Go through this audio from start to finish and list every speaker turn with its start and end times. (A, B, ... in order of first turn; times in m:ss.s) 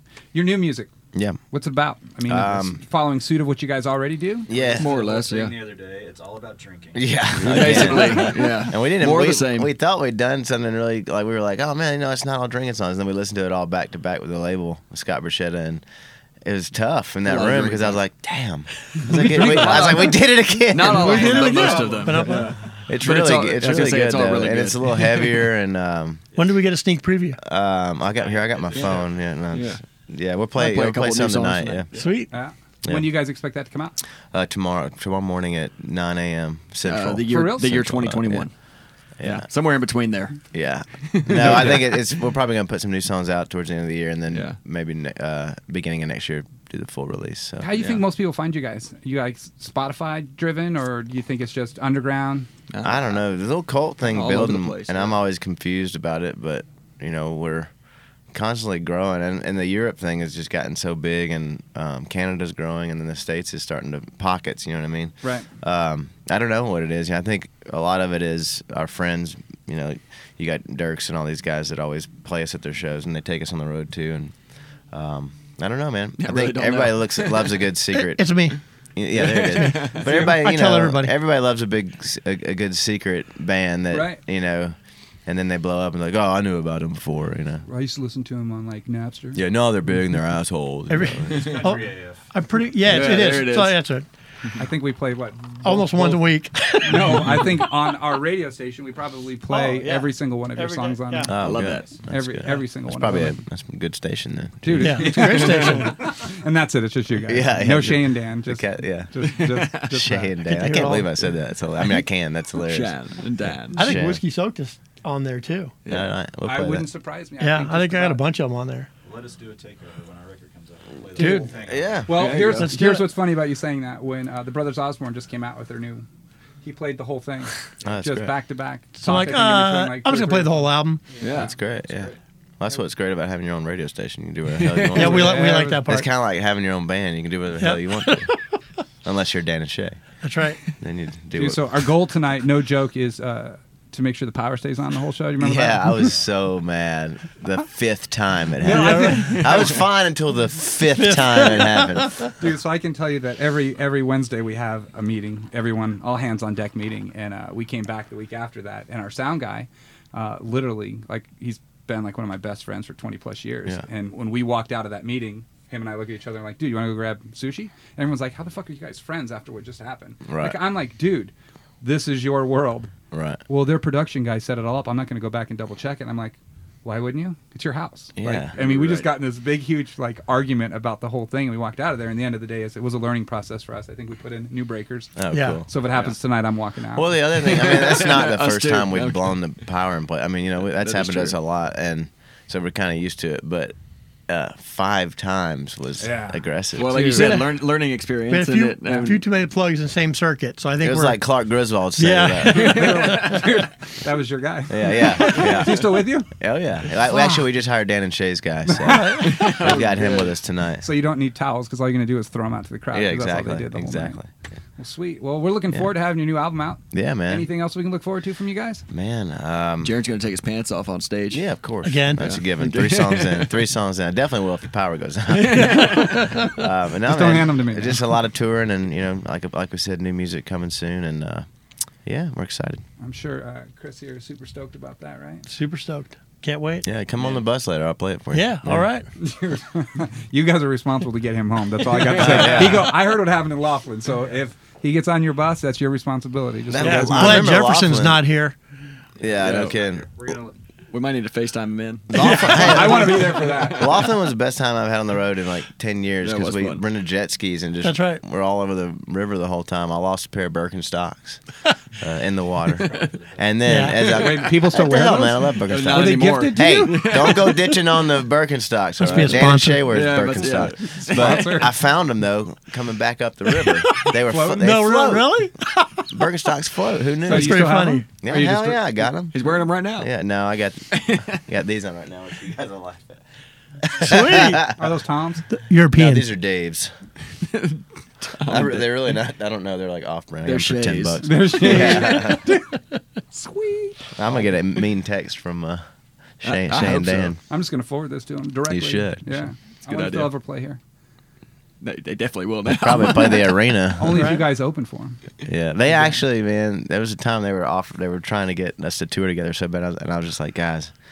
0:00.3-0:00.9 A
0:01.1-0:01.4 B
0:01.5-0:04.5 A
0:02.3-0:02.8 B
0:04.5-0:05.0 B
0:04.5-0:08.2 C
0:04.7-0:05.6 D
0:07.0-0:15.8 B
0:07.4-0:09.7 D
0:07.8-0:08.3 A
0:16.4-0:21.2 B
0:17.2-0:18.0 D
0:19.1-0:19.4 E
0:19.3-0:25.5 D
0:20.9-0:22.6 E
0:20.9-0:22.6 C
0:22.8-0:26.2 B
0:26.4-0:27.4 E
0:27.4-0:31.9 B
0:28.1-0:29.0 C
0:28.7-0:29.8 D
0:30.6-0:32.1 D
0:32.0-0:32.4 E
0:32.3-0:34.0 A
0:34.3-0:38.5 B
0:36.8-0:38.5 D
0:37.3-0:37.7 A
0:39.2-0:39.5 B
0:39.2-0:40.4 D
0:40.5-0:48.0 B
0:41.1-0:42.0 D
0:44.3-0:44.6 D
0:47.6-0:52.5 A
0:52.7-0:53.2 D
0:52.8-0:57.7 B
0:54.1-0:55.2 D
0:58.3-1:14.3 B
1:05.2-1:05.5 A
1:14.9-1:18.2 B
1:16.2-1:17.6 D
1:18.2-1:18.6 E
1:19.0-1:27.6 B
1:19.2-1:20.1 D
1:20.0-1:20.4 A
1:20.3-1:21.2 E
1:23.9-1:24.2 A
1:27.6-1:29.4 A
1:29.4-1:31.6 B
1:30.9-1:34.1 E
1:31.4-1:32.8 C
1:32.8-1:33.8 D
1:34.6-1:41.3 A
1:35.6-1:37.6 E
1:39.5-1:41.4 E
1:41.3-1:45.0 B
1:41.4-1:41.9 D
1:42.1-1:43.4 A
1:44.6-1:50.4 A
1:44.8-1:46.0 E
1:45.2-1:45.9 D
1:47.3-1:49.1 B
1:49.4-1:49.8 D
1:49.8-1:54.2 B
1:50.4-1:51.3 E
1:51.8-1:53.9 D
1:53.7-1:55.7 E
1:55.8-1:56.1 D
1:55.9-1:56.9 B
1:56.4-1:58.2 A
1:57.4-1:58.9 E
1:59.0-2:02.6 C
2:01.2-2:01.5 E
2:01.2-2:01.5 A
2:01.5-2:02.1 B
2:02.1-2:06.1 A
2:02.1-2:02.7 D
2:02.6-2:03.1 E
2:06.6-2:10.7 A
2:07.8-2:08.4 B
2:09.0-2:11.0 E
2:11.1-2:12.2 C
2:11.2-2:11.5 D
2:11.3-2:18.3 B
2:14.5-2:15.2 D
2:15.0-2:16.1 E
2:15.0-2:15.9 A
2:17.6-2:18.4 E
2:19.0-2:20.0 B
2:20.2-2:20.6 E
2:20.7-2:21.9 B
2:21.4-2:26.1 A
2:25.4-2:32.2 B
2:28.6-2:29.8 A
2:28.6-2:29.3 E
2:31.0-2:32.3 E
2:32.4-2:52.9 A
2:50.2-2:50.6 B
2:53.1-2:53.4 B
2:53.5-3:07.2 A
2:58.2-2:58.5 B
2:58.5-2:59.1 D
3:05.2-3:05.7 B
3:05.3-3:05.6 E
3:06.9-3:13.8 B
3:07.4-3:09.4 D
3:10.7-3:11.4 D
3:14.3-3:17.0 B
3:16.0-3:17.4 A
3:16.7-3:19.2 D
3:17.2-3:17.5 E
3:18.3-3:21.2 E
3:20.8-3:22.9 B
3:22.0-3:23.4 E
3:22.4-3:26.3 A
3:24.7-3:30.9 B
3:25.4-3:25.7 D
3:28.7-3:29.7 A
3:29.2-3:30.4 D
3:30.8-3:34.2 A
3:32.9-3:34.3 B
3:34.8-3:38.9 A
3:36.9-3:37.5 B
3:38.9-3:40.0 B
3:39.8-3:41.4 D
3:41.3-3:51.5 B
3:41.8-3:42.3 E
3:42.2-3:43.6 D
3:45.3-3:46.4 D
3:45.9-3:46.2 E
3:47.0-3:48.1 A
3:52.0-3:52.8 B
3:53.0-3:55.5 A
3:55.5-3:56.8 E
3:56.8-3:58.9 B
3:58.3-3:59.1 E
3:59.2-4:07.6 A
4:02.2-4:02.9 B
4:02.2-4:02.6 D
4:06.7-4:08.2 B
4:06.8-4:08.6 E
4:09.2-4:10.1 B
4:09.2-4:10.6 C
4:09.4-4:09.8 D
4:10.9-4:14.1 D
4:12.1-4:21.4 B
4:12.1-4:12.9 E
4:12.2-4:14.1 A
4:16.2-4:16.8 D
4:17.8-4:18.2 E
4:22.0-4:35.3 B
4:22.7-4:23.1 D
4:22.8-4:23.5 C
4:23.6-4:24.0 E
4:24.1-4:27.5 A
4:25.7-4:27.8 D
4:29.0-4:30.0 E
4:29.9-4:31.7 D
4:30.8-4:31.7 A
4:34.3-4:34.6 A
4:34.6-4:36.0 E
4:36.1-4:37.7 B
4:37.2-4:38.1 E
4:37.3-4:39.1 A
4:38.2-4:39.4 B
4:39.3-4:40.1 D
4:40.0-4:43.2 B
4:40.9-4:41.3 D
4:43.9-4:44.7 B
4:44.0-4:44.6 E
4:44.7-4:45.4 A
4:45.5-4:46.3 E
4:45.9-4:46.9 B
4:47.4-4:49.0 D
4:48.5-4:52.5 B
4:50.4-4:52.1 D
4:51.2-4:54.0 A
4:54.2-4:55.8 B
4:56.4-4:57.4 B
4:56.4-4:57.4 D
4:57.5-5:00.8 A
4:58.7-4:59.4 B
4:59.9-5:00.3 D
5:01.8-5:03.6 D
5:02.7-5:04.4 B
5:04.0-5:05.2 A
5:04.2-5:04.5 E
5:05.5-5:10.9 B
5:05.8-5:06.2 A